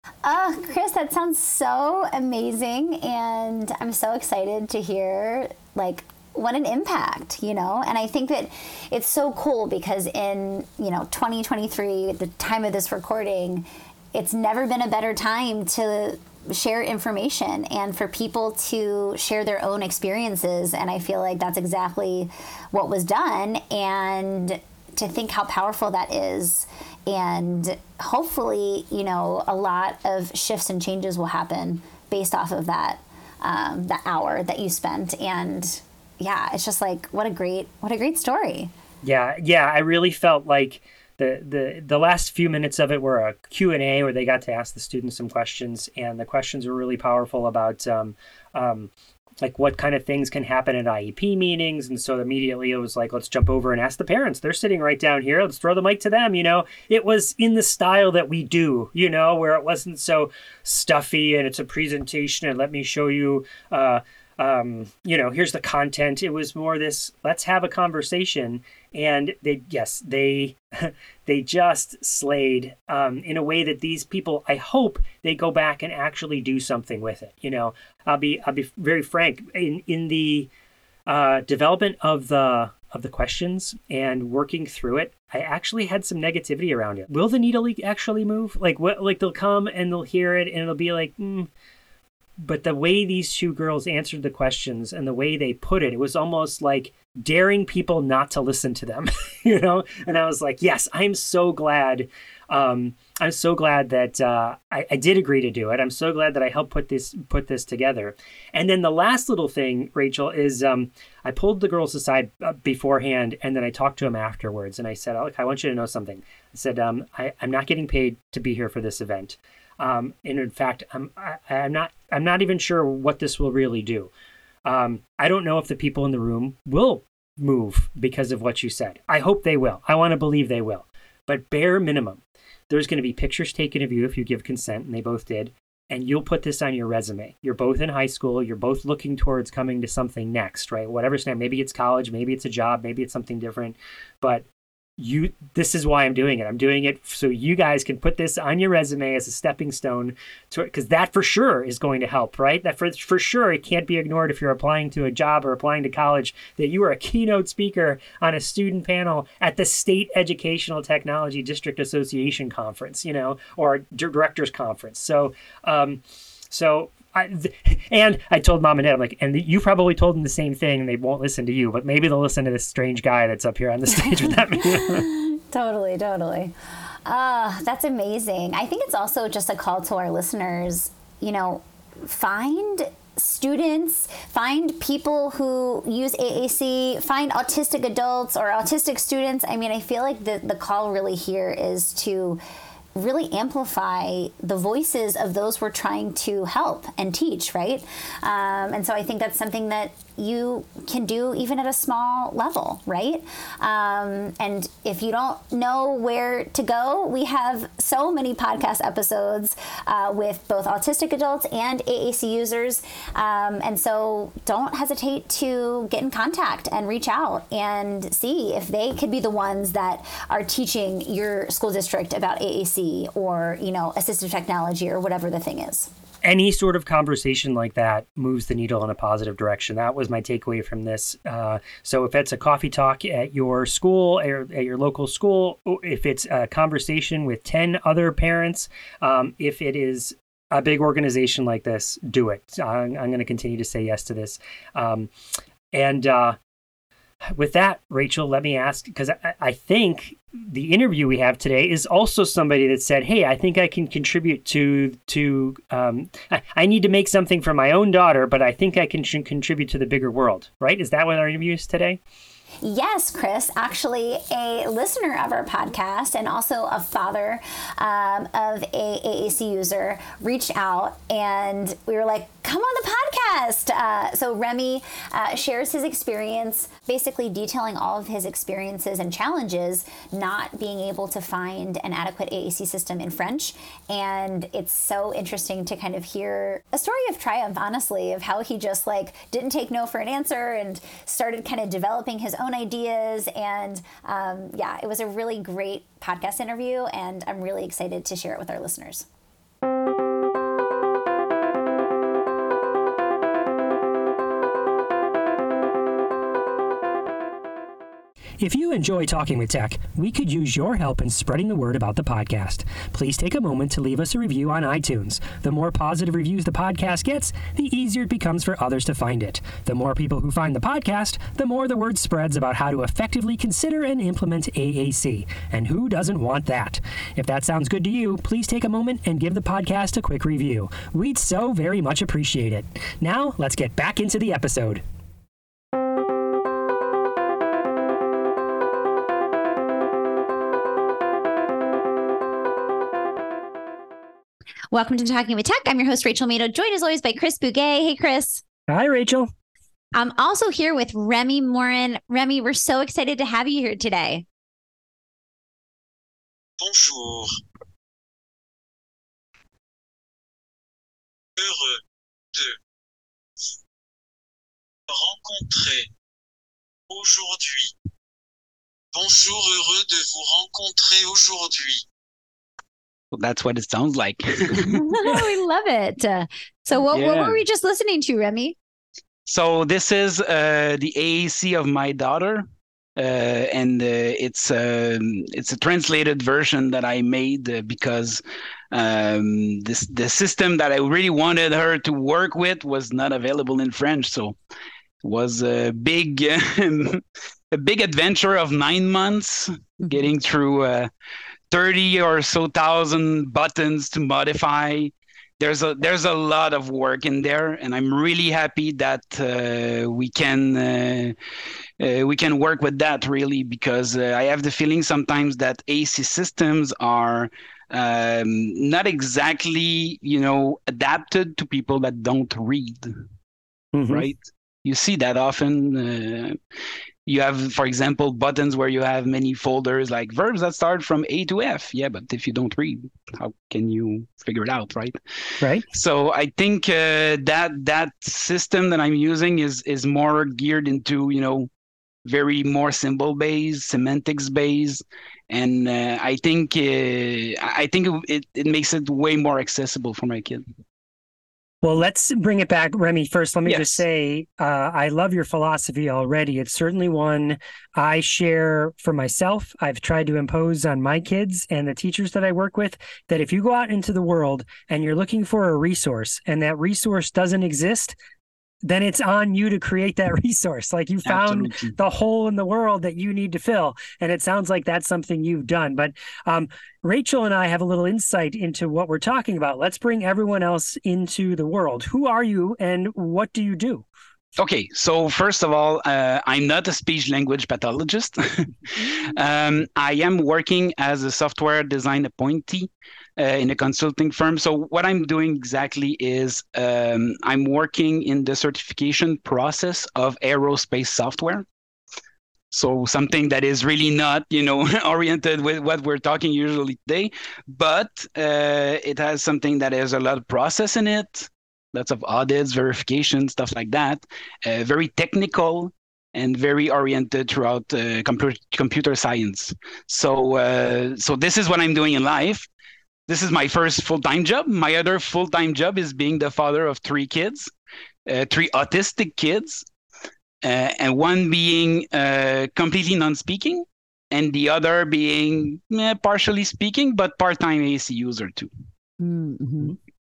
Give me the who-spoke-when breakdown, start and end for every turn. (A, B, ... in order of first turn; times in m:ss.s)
0:00.2-0:38.7 A
0:39.0-1:20.5 B
1:21.1-1:31.5 B
1:32.4-2:04.1 B
2:04.6-2:24.4 B
2:25.0-2:55.1 B
2:54.7-2:56.5 A
2:57.0-3:12.4 A
3:13.0-3:45.9 A
3:46.2-4:05.1 B
4:05.7-4:06.4 B
4:07.2-4:22.0 B
4:22.6-4:59.0 A
5:08.4-5:34.8 C
5:44.7-5:48.4 A
5:48.7-5:49.3 C
5:49.9-5:54.2 A
5:56.6-5:57.3 D
6:01.4-6:01.8 D
6:04.9-6:05.9 D
6:06.9-6:07.7 D
6:08.9-6:11.8 D
6:13.1-6:14.8 E
6:14.5-6:18.6 A
6:16.9-6:17.4 E
6:19.2-6:22.4 E
6:23.0-6:34.4 E
6:35.0-6:40.9 E
6:41.5-6:51.2 E
6:51.8-7:03.0 E
7:03.7-7:04.0 C
7:03.9-7:06.4 E
7:07.0-7:15.0 E
7:15.7-7:21.5 E
7:22.0-7:30.4 E
7:31.6-7:48.0 C
7:33.4-7:33.8 E
7:48.6-8:03.8 C
7:51.0-7:51.7 E
8:04.4-8:21.4 E
8:22.5-8:42.5 E
8:43.1-8:47.5 E
8:48.1-8:49.6 E
8:50.4-8:58.5 E
8:59.0-8:59.8 A